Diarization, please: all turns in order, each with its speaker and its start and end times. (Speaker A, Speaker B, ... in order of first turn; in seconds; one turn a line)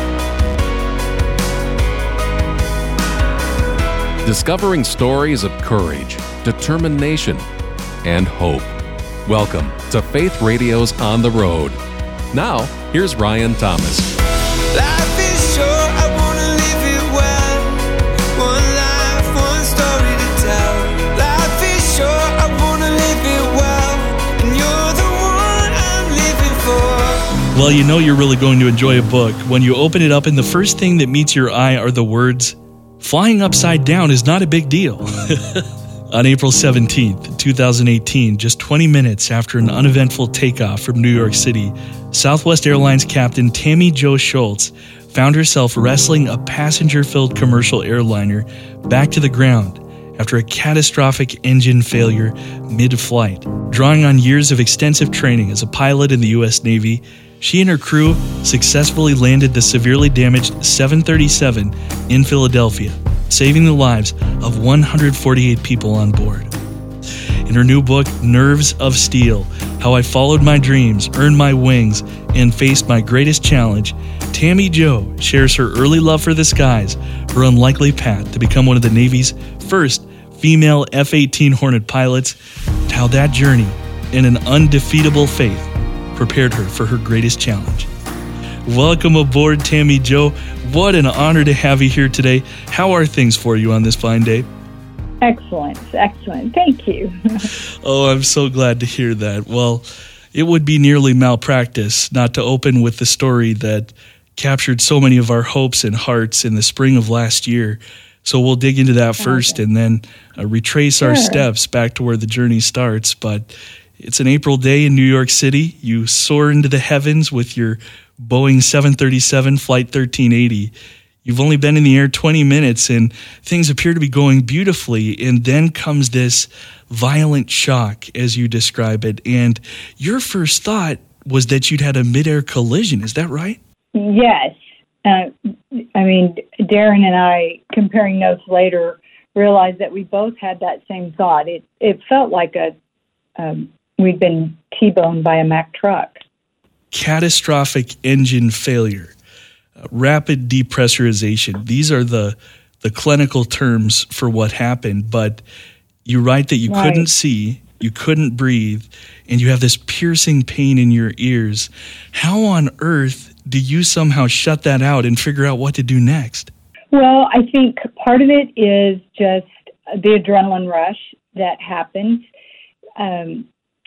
Speaker A: 4.2-7.4
Speaker A: 8.0-8.7
Speaker A: 9.3-11.8
Speaker A: 12.3-14.1
Speaker A: 14.7-27.5
Speaker B: 27.5-66.5
Speaker B: 67.5-82.4
Speaker B: 82.9-87.9
Speaker B: 88.7-94.5
Speaker C: 95.2-97.5
Speaker B: 97.8-120.7
Speaker C: 109.2-109.6
Speaker C: 111.0-111.4
Speaker B: 121.2-133.6
Speaker C: 133.9-142.7
Speaker C: 143.4-146.2
Speaker B: 146.9-149.1
Speaker B: 149.9-155.4
Speaker B: 156.1-166.5
Speaker C: 156.7-157.1
Speaker C: 166.9-172.2
Speaker C: 173.0-173.5